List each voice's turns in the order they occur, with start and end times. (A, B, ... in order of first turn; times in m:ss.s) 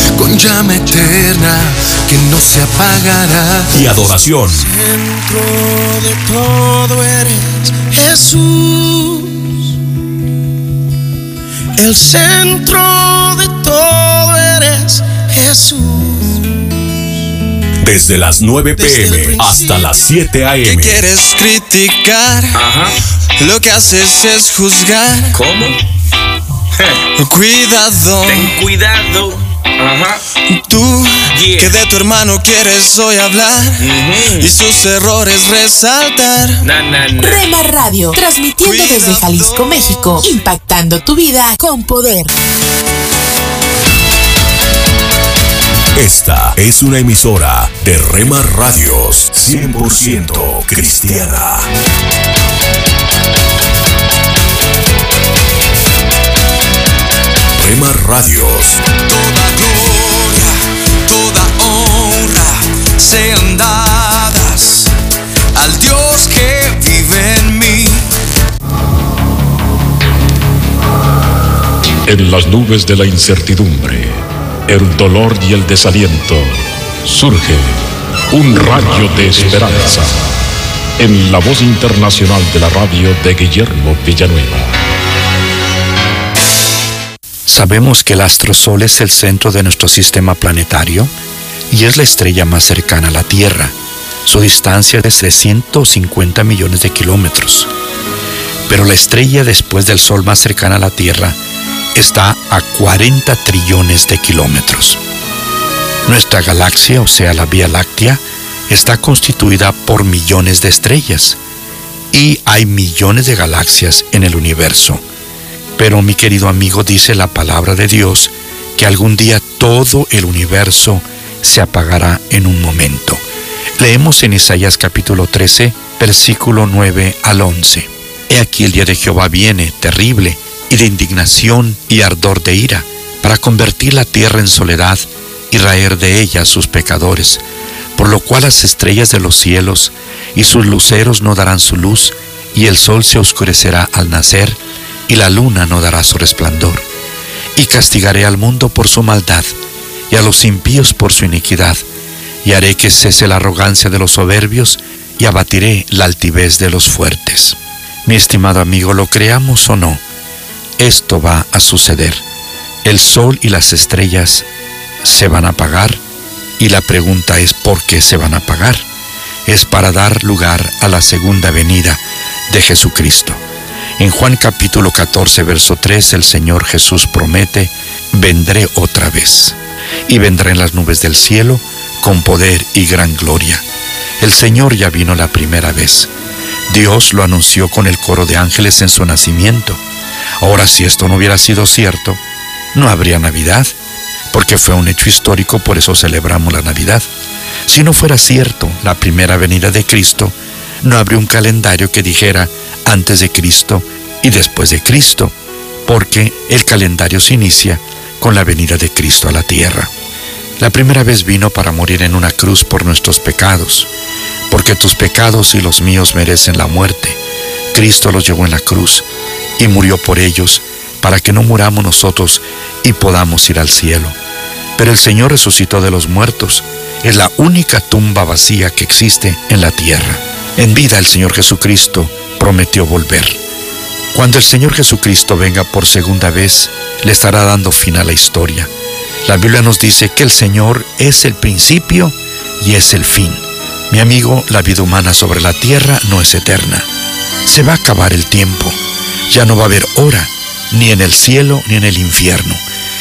0:00.1-0:09.3 A
0:03.7-0:04.7 B
0:11.8-0:16.4 A
0:17.8-0:21.0 B
0:18.8-0:19.8 A
0:20.6-0:22.6 A
0:22.5-0:22.9 C
0:23.4-0:25.3 A
0:25.3-0:25.8 C
0:27.2-0:28.6 A
0:28.2-0:30.2 C
0:30.5-0:33.8 A
0:31.3-0:31.8 C
0:33.8-0:34.6 C
0:34.4-0:36.6 A
0:36.6-0:37.4 C
0:37.2-0:42.3 D
0:38.6-0:39.8 A
0:46.0-0:51.7 B
0:57.6-0:58.8 B
0:59.0-1:04.9 A
1:05.6-1:08.0 A
1:12.1-1:17.8 E
1:18.3-1:20.3 E
1:21.0-1:24.8 E
1:27.5-1:31.1 F
1:31.7-1:37.7 F
1:38.7-1:41.4 F
1:42.0-1:45.0 F
1:46.1-1:51.4 F
1:52.1-1:55.0 F
1:55.8-2:03.2 F
2:03.8-2:17.4 F
2:18.0-2:26.8 F
2:27.6-2:29.5 F
2:30.1-2:31.8 F
2:32.4-2:40.0 F
2:40.8-2:42.2 F
2:42.8-2:44.5 F
2:45.0-2:46.0 F
2:46.6-2:48.9 F
2:49.5-2:53.4 F
2:54.0-2:59.6 F
3:00.1-3:03.6 F
3:04.2-3:06.1 F
3:06.7-3:09.8 F
3:10.4-3:12.2 F
3:12.8-3:13.7 F
3:14.3-3:17.1 F
3:17.7-3:25.3 F
3:25.9-3:29.9 F
3:30.6-3:33.9 F
3:34.5-3:37.2 F
3:37.7-3:39.1 F
3:39.6-3:44.2 F
3:44.8-3:53.4 F
3:54.1-3:58.7 F
3:59.3-4:06.9 F
4:07.5-4:08.8 F
4:09.3-4:12.6 F